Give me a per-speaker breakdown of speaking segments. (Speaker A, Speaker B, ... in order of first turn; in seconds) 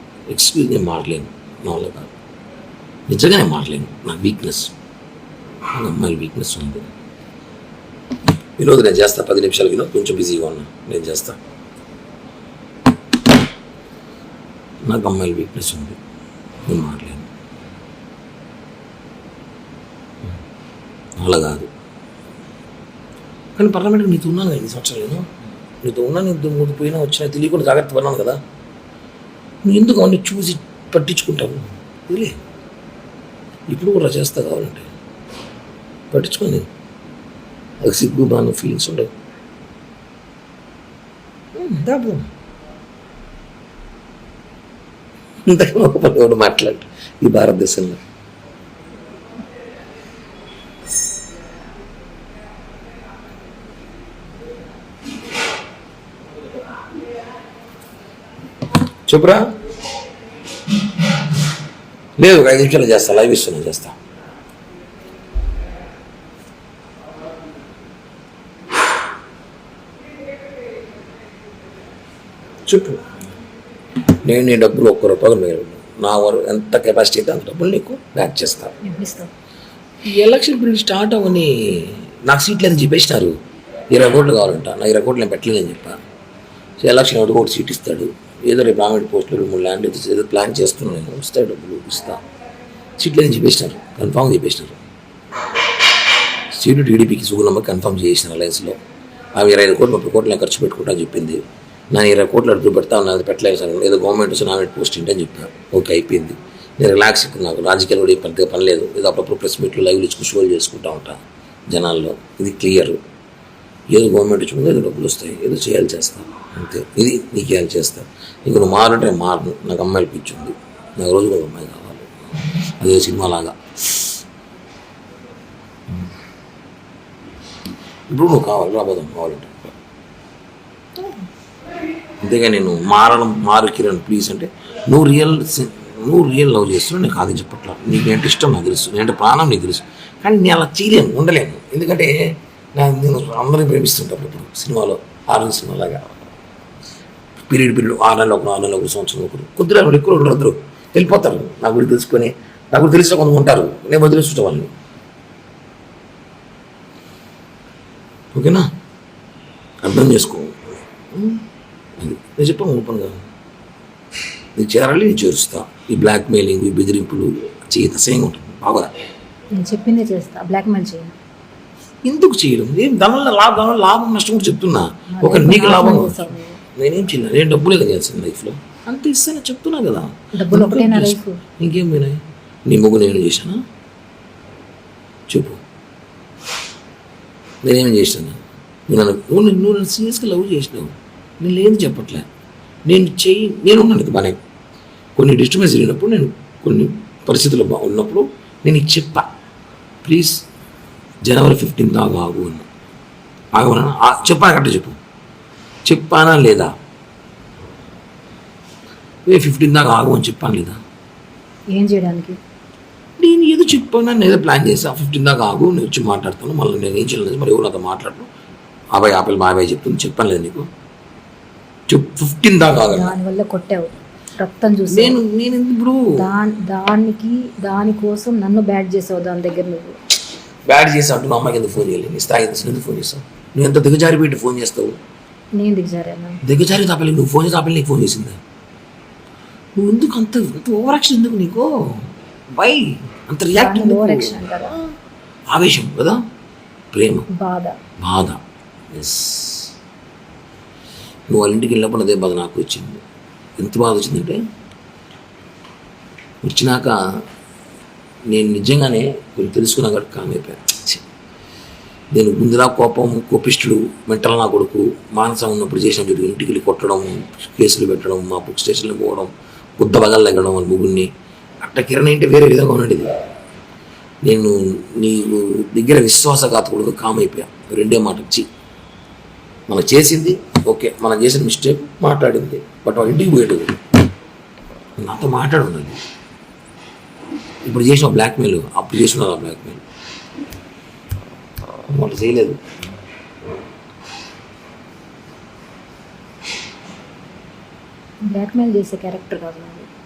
Speaker A: 0.3-2.1, 3.1-4.7, 5.7-6.9, 8.6-11.4, 14.8-16.0, 16.7-17.3, 21.2-21.7, 23.6-25.3, 25.8-28.4, 29.6-32.4, 33.7-34.9, 36.1-36.7, 37.8-39.1, 41.6-42.3, 45.5-48.0, 59.1-59.4, 62.2-64.0, 72.7-73.0, 74.2-78.7, 80.1-83.4, 83.9-86.0, 86.8-92.2, 93.0-94.8, 96.5-98.8, 99.3-101.4, 101.9-113.0, 113.9-122.2, 122.8-124.2, 128.1-129.8, 132.2-146.1, 147.5-154.7, 158.3-158.7, 159.8-160.6, 161.1-161.4, 162.0-163.2, 164.6-168.9, 172.0-183.6, 185.3-185.6, 187.6-192.2, 192.9-194.4, 195.2-199.3, 200.0-200.4, 201.2-202.7, 203.5-205.0, 205.8-206.7, 209.3-210.8, 213.2-218.3, 218.9-220.7, 221.9-223.2, 224.9-226.3, 230.7-235.0, 236.4-238.4, 239.8-244.8, 245.5-246.2, 246.9-247.3, 248.0-248.4, 248.9-249.8, 251.3-253.0, 253.6-254.4, 256.4-257.0, 258.3-261.0, 262.1-271.1, 271.6-273.2, 274.2-278.5, 279.7-283.8, 285.0-286.0, 287.6-289.8, 291.9-292.6
Speaker B: 78.8-79.3, 169.6-171.2, 175.1-176.6, 180.4-181.4, 211.7-212.4, 222.9-225.2, 226.2-230.0, 235.6-236.4, 243.6-244.7, 247.3-247.8, 298.3-299.9